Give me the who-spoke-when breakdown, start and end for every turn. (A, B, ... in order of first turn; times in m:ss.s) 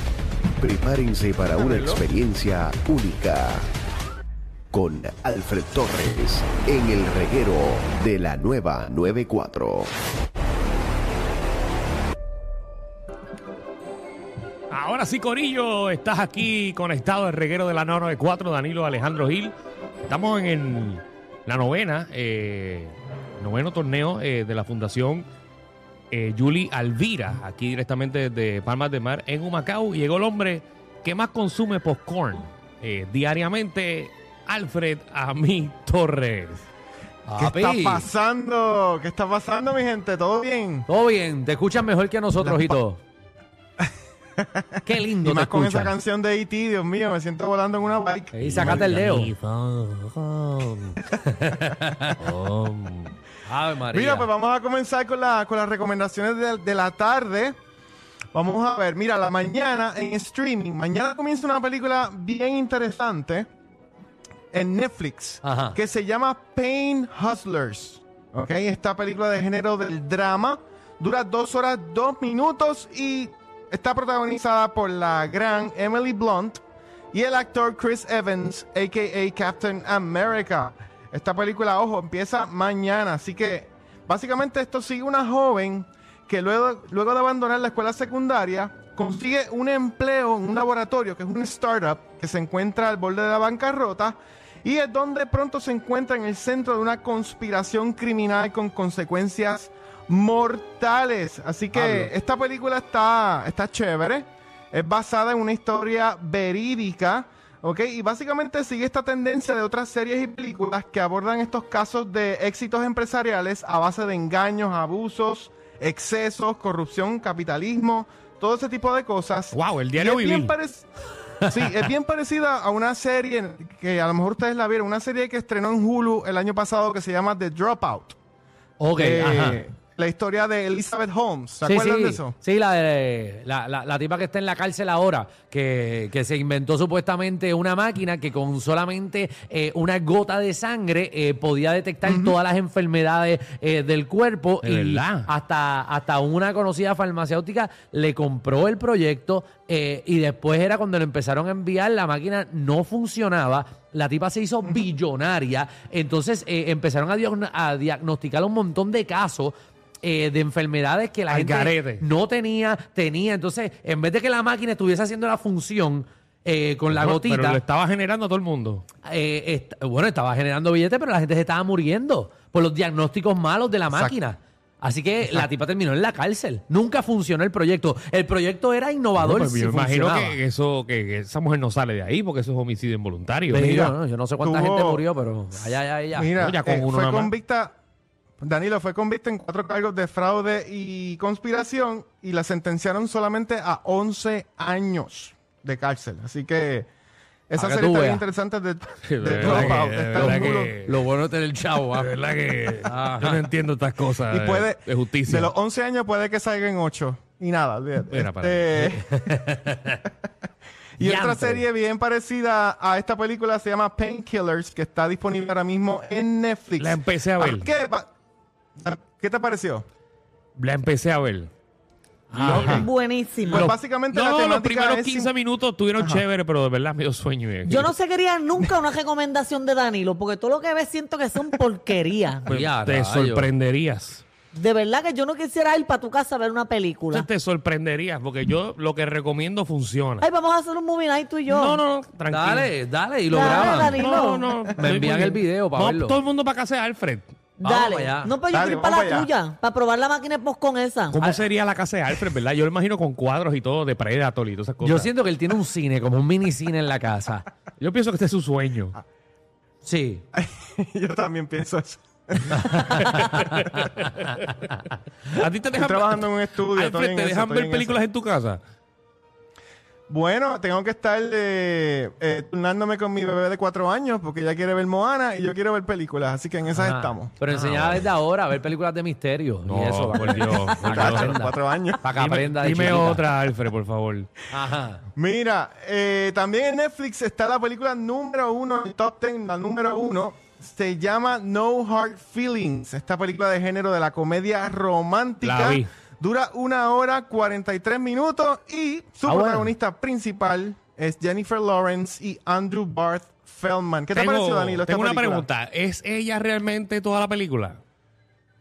0:00.6-0:03.7 A
0:01.6-0:02.0 B
0:04.7-0:09.9 A
0:14.7-0:19.5 C
0:20.1-0:25.3 C
0:26.1-0:36.6 C
0:37.2-0:38.1 D
0:37.4-0:40.9 B
0:40.9-0:43.0 D
0:42.4-0:42.8 B
0:44.4-0:48.9 B
0:44.8-0:45.9 D
0:48.3-0:49.3 D
0:48.4-0:51.0 C
0:51.4-0:52.1 D
0:52.2-0:53.1 C
0:53.4-0:54.3 D
0:53.9-0:57.6 B
0:58.3-1:03.5 B
1:04.5-1:16.6 B
1:05.4-1:05.8 D
1:17.1-2:00.8 B
1:41.7-1:42.1 C
1:59.5-2:00.5 C
2:01.5-2:08.2 B
2:08.8-2:09.6 D
2:09.0-2:12.3 B
2:11.6-2:47.6 D
2:22.0-2:22.3 B
2:24.6-2:25.3 C
2:41.3-2:42.0 C
2:46.9-2:48.8 C
2:49.0-3:00.4 D
2:53.9-2:54.2 B
2:59.2-3:03.9 C
3:03.5-3:06.5 D
3:04.4-3:05.0 B
3:06.1-3:07.7 B
3:06.4-3:07.3 C
3:08.4-3:16.9 B
3:17.5-3:20.7 B
3:17.5-3:18.2 D
3:19.1-3:21.0 C
3:19.4-3:22.1 D
3:21.9-3:25.5 C
3:22.8-3:23.5 D
3:24.3-3:29.5 B
3:28.1-3:28.7 C
3:28.9-3:30.0 D
3:31.0-3:38.1 B
3:31.0-3:31.6 D
3:36.8-3:37.7 C
3:38.8-3:39.8 B
3:40.6-3:41.5 C
3:42.3-3:42.8 C
3:42.3-3:42.8 D
3:42.4-3:42.9 B
3:42.6-3:43.7 E
3:43.5-3:47.9 C
3:43.5-3:45.3 B
3:47.6-3:52.5 E
3:52.4-3:54.2 C
3:52.5-3:53.5 D
3:54.5-3:57.3 E
3:57.1-4:00.2 C
4:00.2-4:01.8 E
4:01.4-4:02.7 C
4:02.3-4:04.1 D
4:03.3-4:04.5 E
4:03.4-4:07.3 C
4:04.8-4:06.2 D
4:07.6-4:11.2 E
4:07.6-4:08.3 D
4:08.5-4:09.3 B
4:11.1-4:15.1 C
4:14.8-4:17.4 D
4:17.8-4:19.0 C
4:19.8-4:20.2 D
4:20.3-4:23.2 B
4:23.0-4:24.4 C
4:25.3-4:28.6 C
4:25.7-4:28.0 B
4:30.1-4:37.3 B
4:36.7-4:43.2 D
4:37.5-4:38.0 C
4:39.6-4:41.3 C
4:40.8-4:42.0 B
4:42.1-4:44.3 C
4:44.5-4:45.0 D
4:45.2-5:05.5 B
4:55.4-4:55.9 C
4:59.2-4:59.7 D
5:04.1-5:07.8 C